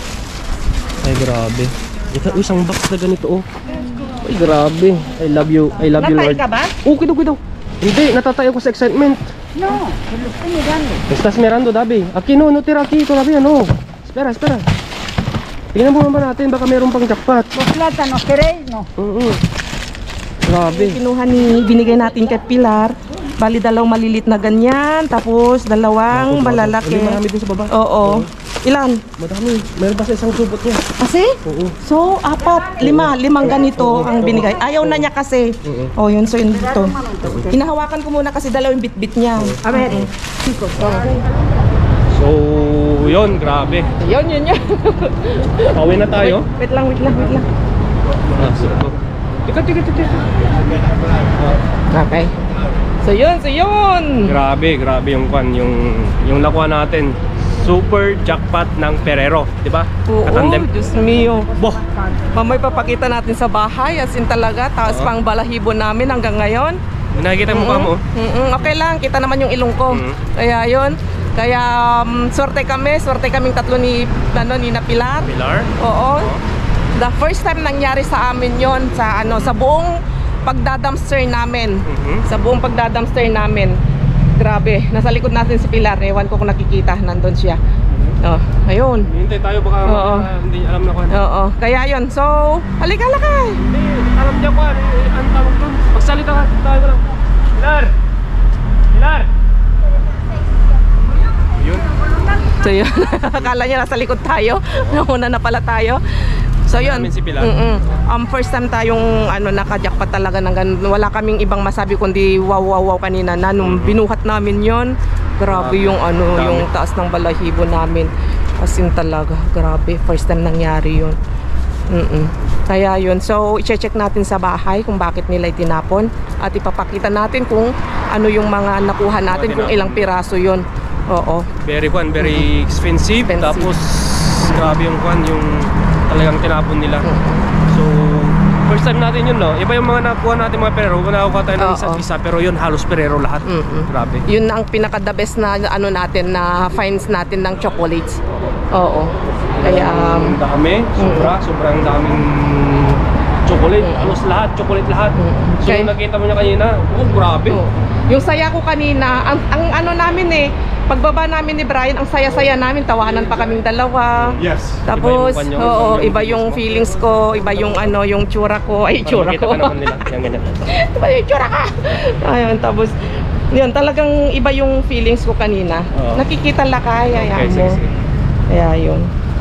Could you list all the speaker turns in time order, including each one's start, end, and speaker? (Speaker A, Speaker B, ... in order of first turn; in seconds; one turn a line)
Speaker A: 1.0-3.5
Speaker B: 3.7-4.1
Speaker A: 4.1-9.3
Speaker B: 6.0-6.8
Speaker C: 9.6-11.0
Speaker A: 11.1-14.7
Speaker A: 15.7-17.5
Speaker C: 17.6-18.9
Speaker A: 19.0-19.4
Speaker A: 20.5-21.0
Speaker B: 20.7-29.1
Speaker A: 26.1-28.3
Speaker A: 29.2-30.9
Speaker B: 31.0-37.0
Speaker A: 31.4-31.8
Speaker A: 32.8-35.1
Speaker A: 35.6-35.9
Speaker C: 36.5-37.6
Speaker A: 37.2-37.5
Speaker B: 37.5-40.0
Speaker A: 39.4-40.1
Speaker C: 39.6-41.1
Speaker B: 40.8-41.2
Speaker A: 42.1-43.9
Speaker B: 44.0-47.5
Speaker A: 45.7-46.5
Speaker A: 48.3-51.6
Speaker B: 51.9-52.3
Speaker B: 53.0-54.4
Speaker A: 54.2-60.7
Speaker B: 60.1-61.5
Speaker A: 61.6-61.8
Speaker B: 62.3-66.8
Speaker A: 64.9-65.1
Speaker A: 67.1-68.0
Speaker B: 67.5-76.3
Speaker A: 69.9-70.2
Speaker A: 75.2-76.4
Speaker B: 77.0-83.8
Speaker A: 79.3-79.5
Speaker A: 81.9-82.3
Speaker B: 84.4-87.6
Speaker A: 87.9-88.2
Speaker B: 88.2-89.1
Speaker A: 89.1-91.2
Speaker B: 89.8-90.3
Speaker B: 91.1-93.6
Speaker A: 93.7-97.9
Speaker A: 98.9-99.3
Speaker A: 101.5-101.9
Speaker B: 102.6-121.2
Speaker A: 104.7-105.0
Speaker A: 106.7-107.5
Speaker A: 113.6-114.0
Speaker A: 115.5-116.7
Speaker B: 121.9-131.5
Speaker A: 129.3-130.1
Speaker A: 131.6-137.1
Speaker B: 132.2-132.5
Speaker B: 133.3-133.7
Speaker B: 134.4-134.8
Speaker B: 137.0-137.5
Speaker A: 137.7-144.2
Speaker B: 141.6-142.0
Speaker B: 143.4-148.2
Speaker B: 148.7-150.4
Speaker A: 149.4-157.6
Speaker B: 151.0-151.3
Speaker B: 153.8-154.2
Speaker B: 155.2-155.9
Speaker B: 157.5-169.9
Speaker A: 164.2-167.9
Speaker A: 169.0-170.8
Speaker B: 170.7-177.8
Speaker A: 175.9-176.2
Speaker A: 177.1-177.9
Speaker B: 178.5-179.1